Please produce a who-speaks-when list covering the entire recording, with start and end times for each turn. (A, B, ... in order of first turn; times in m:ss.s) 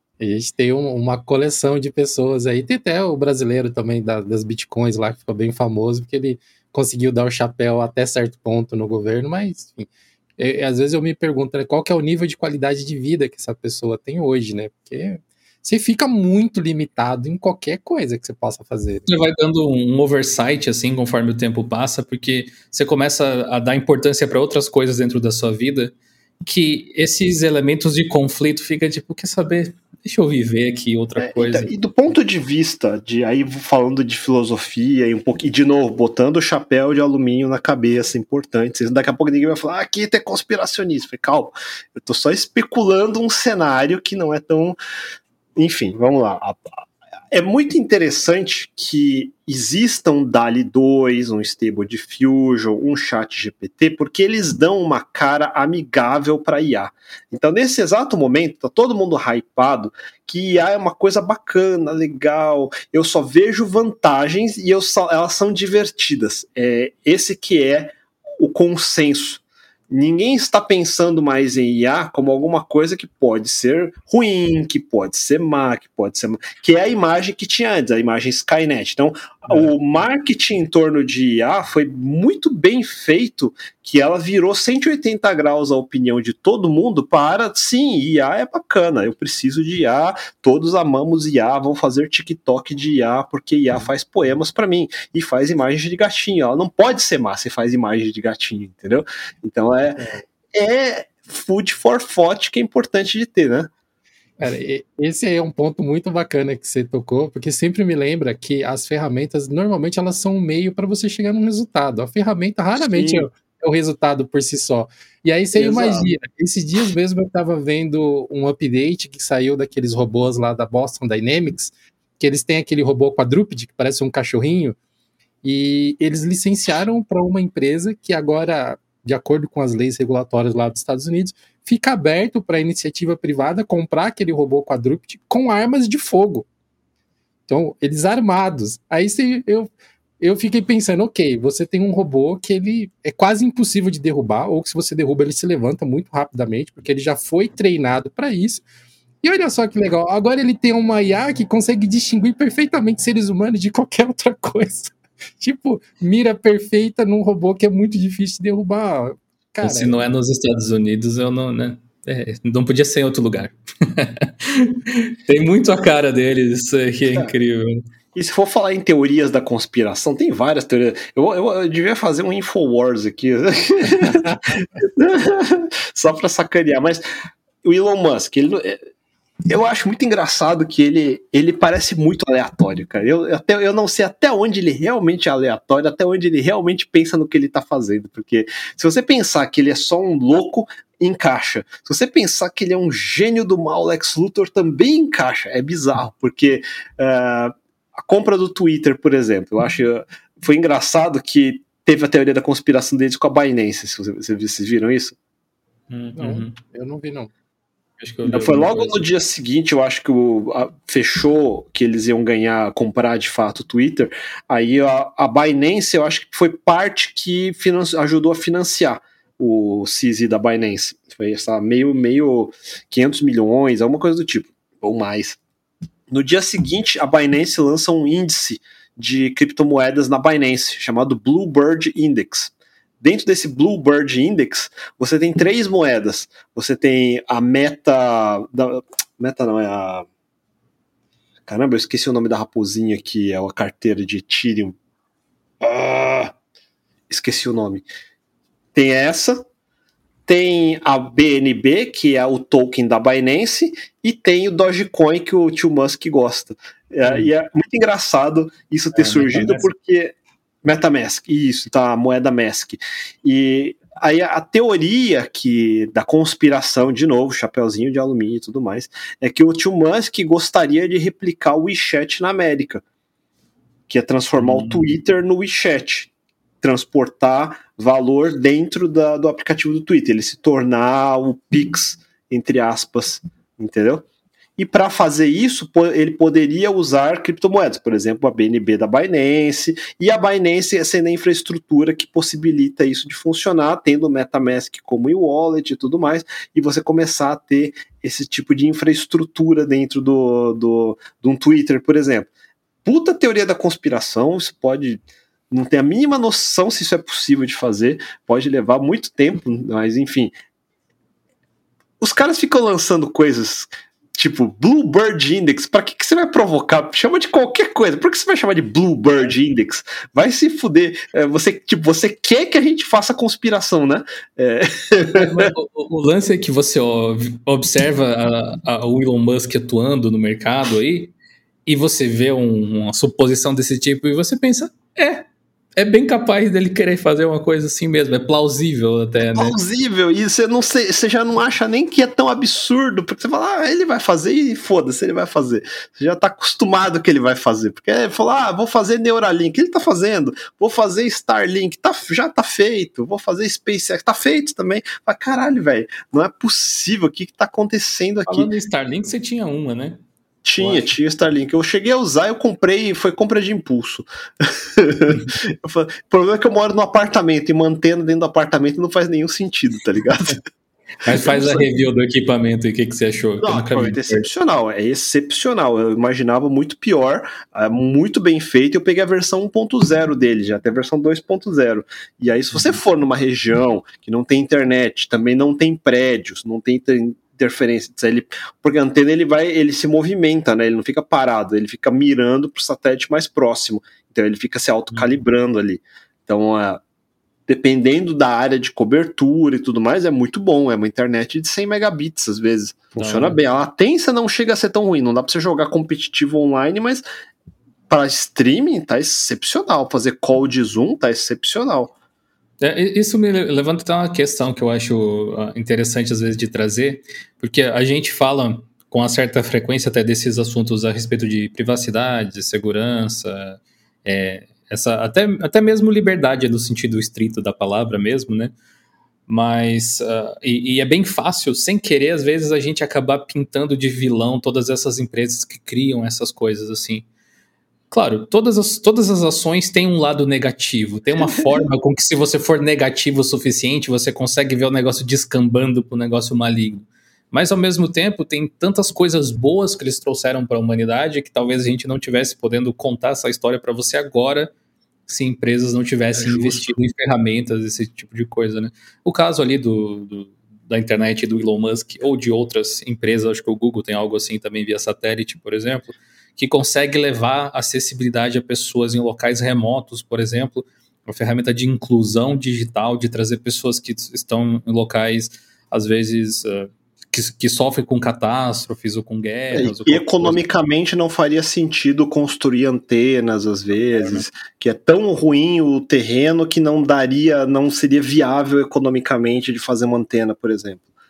0:00.2-0:19.0 A
0:19.0-0:31.7 B
0:31.2-0:44.8 C
0:45.6-0:46.7 C
0:47.3-1:43.7 C
1:40.0-1:40.2 A
1:44.4-2:04.8 A
1:52.8-1:53.3 C
1:55.5-1:56.1 C
2:05.4-2:16.5 A
2:17.5-2:28.6 A
2:29.2-2:40.0 A
2:39.6-2:47.8 B
2:48.1-2:57.0 C
2:57.6-2:58.8 C
2:59.5-3:25.1 C
3:25.9-3:26.5 B
3:26.2-3:27.3 A
3:28.0-3:29.0 B
3:28.2-3:45.4 C
3:46.1-4:00.1 C
4:01.4-4:04.8 C
4:05.6-4:06.3 C
4:07.1-4:07.8 C
4:08.7-4:09.4 C
4:10.3-4:32.8 C
4:17.0-4:17.3 B
4:18.9-4:19.7 B
4:33.9-4:36.1 C
4:34.4-4:34.8 B
4:36.6-4:44.0 C
4:44.6-5:02.3 C
5:02.8-5:10.3 C
5:12.0-5:25.5 C
5:25.1-5:31.1 B
5:31.6-5:35.2 B
5:35.8-5:39.6 B
5:39.3-5:58.5 C
5:58.3-6:00.0 B
6:00.4-6:10.4 C
6:00.6-6:00.9 B
6:11.0-6:14.3 B
6:11.1-6:11.6 C
6:13.4-6:36.8 C
6:34.9-6:35.2 B
6:37.5-6:47.0 C
6:43.0-6:43.4 B
6:47.9-6:51.9 C
6:52.6-7:08.5 B
7:09.3-7:17.0 B
7:17.9-7:34.5 B
7:21.2-7:21.6 C
7:35.1-8:00.4 B
7:36.1-7:36.8 C
7:59.5-8:10.8 C
8:03.8-8:04.2 B